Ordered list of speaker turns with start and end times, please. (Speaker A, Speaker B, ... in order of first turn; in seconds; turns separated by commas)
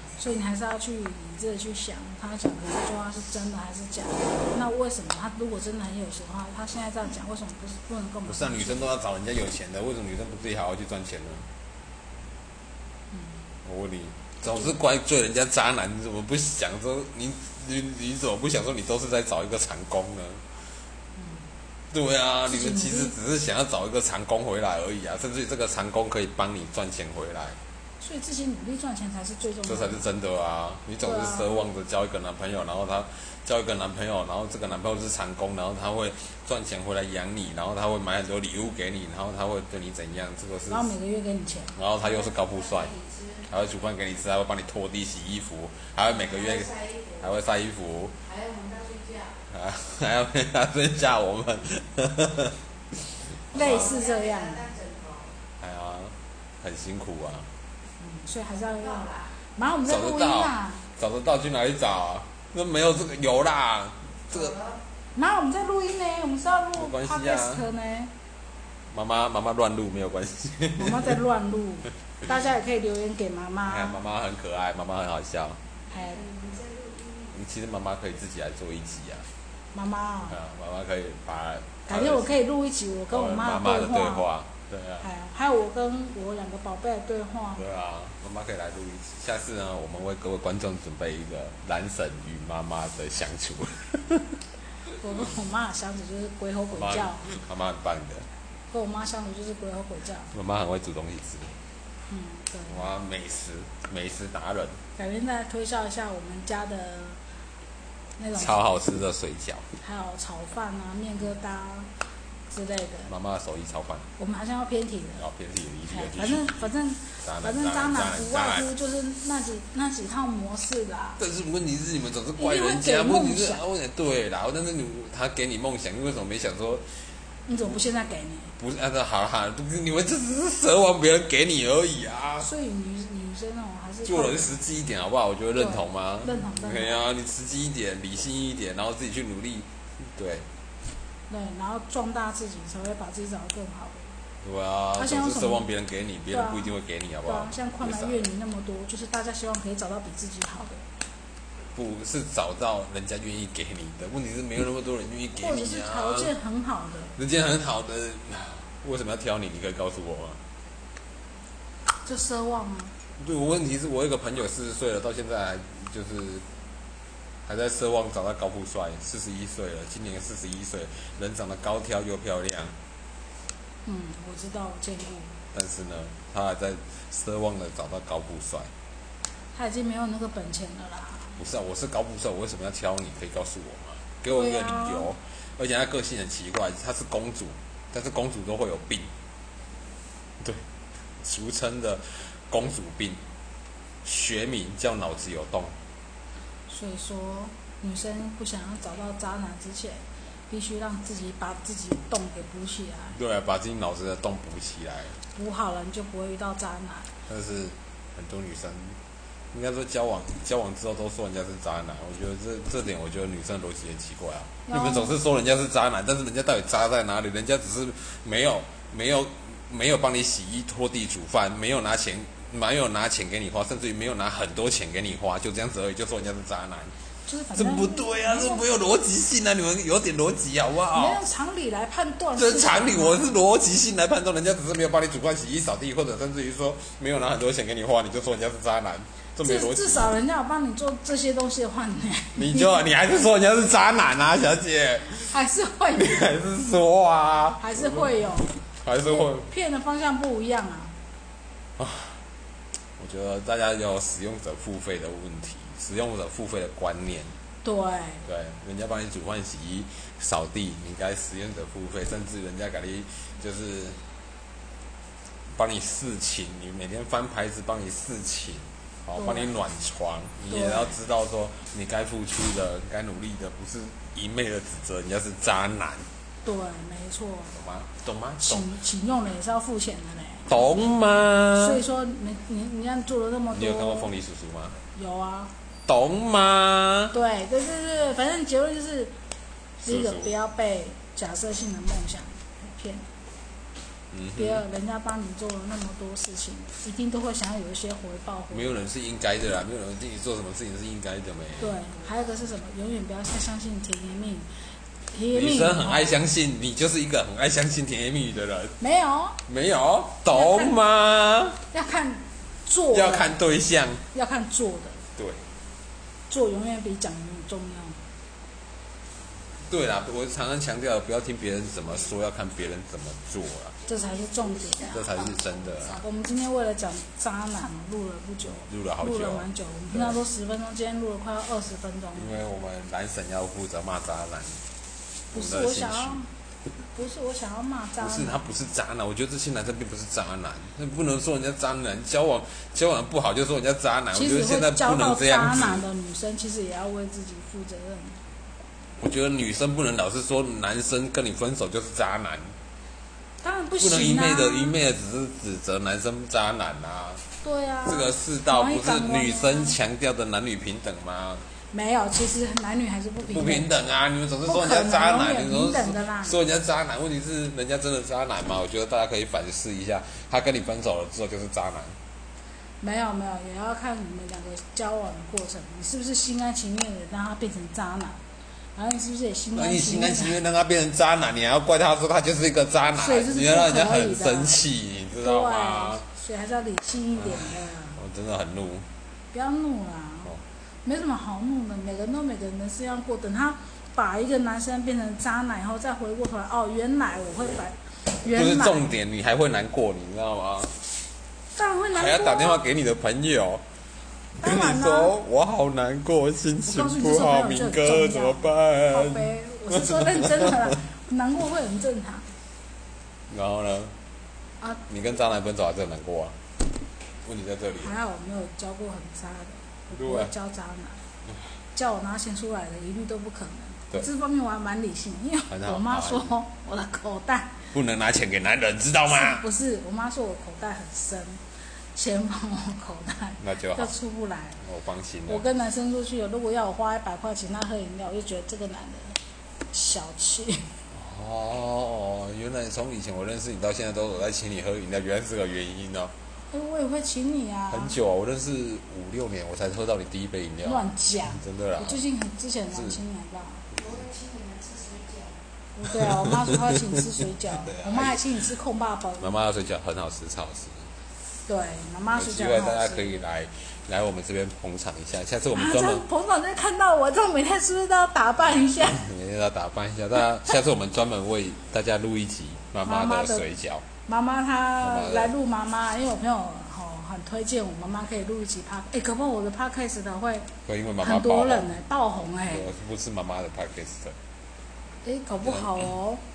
Speaker A: 0.2-8.9, Speaker B: 8.2-11.5, Speaker B: 13.6-20.4, Speaker A: 21.2-21.4, Speaker B: 21.9-27.6, Speaker A: 22.5-23.1, Speaker A: 28.0-30.0, Speaker B: 29.6-40.9, Speaker A: 31.0-31.7, Speaker A: 40.7-41.7, Speaker B: 41.7-42.9, Speaker C: 42.0-43.5, Speaker B: 43.5-48.1, Speaker C: 46.1-47.3, Speaker C: 48.2-49.4, Speaker B: 49.5-52.6, Speaker A: 53.5-54.7, Speaker B: 53.5-53.9, Speaker C: 53.5-55.3, Speaker B: 55.6-57.5, Speaker A: 58.0-60.9, Speaker C: 58.5-59.3, Speaker B: 59.9-64.6, Speaker C: 64.3-64.8, Speaker A: 65.1-68.1, Speaker B: 66.8-67.6, Speaker B: 68.9-71.2, Speaker A: 70.8-74.0, Speaker B: 73.7-75.6, Speaker A: 75.9-76.2, Speaker C: 75.9-77.3, Speaker B: 77.3-79.3, Speaker A: 79.7-80.4, Speaker B: 80.3-82.3, Speaker A: 81.9-84.2, Speaker B: 83.1-85.0, Speaker A: 85.0-87.6, Speaker B: 87.5-94.4, Speaker A: 94.9-97.2, Speaker B: 96.7-98.2, Speaker A: 98.7-100.3, Speaker B: 100.3-101.5, Speaker A: 102.1-102.9, Speaker B: 102.7-104.8, Speaker A: 105.0-107.2, Speaker A: 108.2-108.6, Speaker B: 108.3-109.7, Speaker A: 109.8-111.9, Speaker A: 112.5-113.1, Speaker B: 113.1-114.1, Speaker A: 114.2-115.2, Speaker B: 115.2-118.7, Speaker A: 115.9-121.2, Speaker B: 121.2-126.8, Speaker A: 122.4-123.6, Speaker A: 127.5-128.5, Speaker B: 128.6-132.5, Speaker A: 132.4-134.5, Speaker B: 134.0-140.4, Speaker A: 135.6-137.0, Speaker A: 141.3-144.1, Speaker B: 144.4-148.2, Speaker A: 145.0-145.7, Speaker A: 146.3-146.7, Speaker A: 147.2-150.8, Speaker B: 151.7-156.3, Speaker A: 155.4-157.1, Speaker B: 157.2-160.4, Speaker A: 162.0-162.9, Speaker B: 163.2-166.4, Speaker B: 167.4-172.7, Speaker A: 173.8-175.3, Speaker B: 175.5-178.7, Speaker A: 179.5-181.4, Speaker B: 181.4-189.1, Speaker A: 184.3-185.1, Speaker B: 191.2-193.2, Speaker B: 194.0-195.7, Speaker A: 196.7-203.2, Speaker B: 203.1-205.2, Speaker A: 205.3-207.1, Speaker B: 207.3-209.0, Speaker B: 209.5-226.9, Speaker A: 214.7-215.2, Speaker A: 227.2-228.7, Speaker B: 227.5-231.2, Speaker A: 230.9-233.4, Speaker B: 232.3-240.2, Speaker A: 239.4-242.8, Speaker B: 242.3-245.3, Speaker A: 245.2-246.3, Speaker B: 245.9-249.5, Speaker A: 247.6-250.9, Speaker B: 251.8-252.2, Speaker B: 253.0-257.3, Speaker A: 257.6-258.2, Speaker B: 258.2-264.0, Speaker B: 265.5-276.1, Speaker A: 269.1-269.6, Speaker A: 270.5-270.9, Speaker A: 276.4-277.6, Speaker B: 277.5-278.7, Speaker A: 278.4-280.5, Speaker B: 280.5-281.8, Speaker A: 281.5-284.1, Speaker B: 283.5-284.8, Speaker A: 284.9-285.5, Speaker B: 285.9-287.1, Speaker A: 287.1-289.1, Speaker A: 289.8-293.0, Speaker B: 289.8-290.3, Speaker B: 294.1-294.6, Speaker A: 294.3-298.8, Speaker B: 298.5-301.8, Speaker A: 301.6-304.4, Speaker A: 305.1-306.1, Speaker B: 305.3-308.8, Speaker A: 308.8-309.4, Speaker B: 309.5-311.6, Speaker A: 310.3-310.8, Speaker A: 311.7-313.3, Speaker B: 312.9-314.0, Speaker A: 314.1-315.0, Speaker A: 316.3-318.0, Speaker B: 319.7-323.8, Speaker A: 323.9-325.0, Speaker C: 323.9-326.0, Speaker B: 324.9-326.0, Speaker A: 326.0-332.4, Speaker B: 328.6-330.2, Speaker B: 332.1-334.6, Speaker B: 335.3-336.2, Speaker A: 335.3-336.3, Speaker A: 336.9-338.4, Speaker B: 338.0-345.8, Speaker A: 344.1-348.2, Speaker B: 349.0-352.5, Speaker A: 353.4-354.7, Speaker B: 353.8-357.2, Speaker A: 357.4-359.8, Speaker B: 357.8-361.4, Speaker A: 361.7-363.7, Speaker B: 363.2-371.9, Speaker A: 364.4-366.4, Speaker A: 372.8-378.2, Speaker A: 378.8-380.4, Speaker B: 379.5-386.0, Speaker A: 383.0-384.6, Speaker A: 385.2-388.0, Speaker B: 387.2-388.9, Speaker A: 389.3-390.3, Speaker A: 390.8-398.9, Speaker B: 398.2-400.8, Speaker A: 401.6-402.6, Speaker B: 401.9-403.6, Speaker A: 404.4-405.1, Speaker B: 404.4-410.7, Speaker A: 406.6-412.3, Speaker B: 413.3-413.9, Speaker B: 414.9-416.4, Speaker B: 417.2-417.9, Speaker A: 417.8-421.0, Speaker B: 419.9-420.3, Speaker A: 421.7-427.6, Speaker B: 425.5-426.3, Speaker B: 427.7-429.4, Speaker A: 429.1-431.4, Speaker A: 431.9-434.6, Speaker B: 433.4-433.9, Speaker B: 434.6-435.5, Speaker A: 435.3-439.2, Speaker A: 439.7-440.7, Speaker B: 440.9-446.1, Speaker A: 446.5-448.0, Speaker B: 447.7-452.0, Speaker A: 450.6-453.6, Speaker B: 452.7-453.0, Speaker C: 453.7-455.4, Speaker A: 455.8-459.3, Speaker B: 455.9-458.3, Speaker B: 459.2-460.8, Speaker A: 461.5-463.2, Speaker B: 462.1-466.0, Speaker A: 465.5-469.1, Speaker B: 468.8-473.9, Speaker A: 472.8-473.4, Speaker A: 474.1-480.5, Speaker B: 474.8-475.3, Speaker B: 480.6-481.7, Speaker A: 481.0-482.7, Speaker B: 482.4-484.2, Speaker A: 485.0-486.2, Speaker B: 485.4-485.9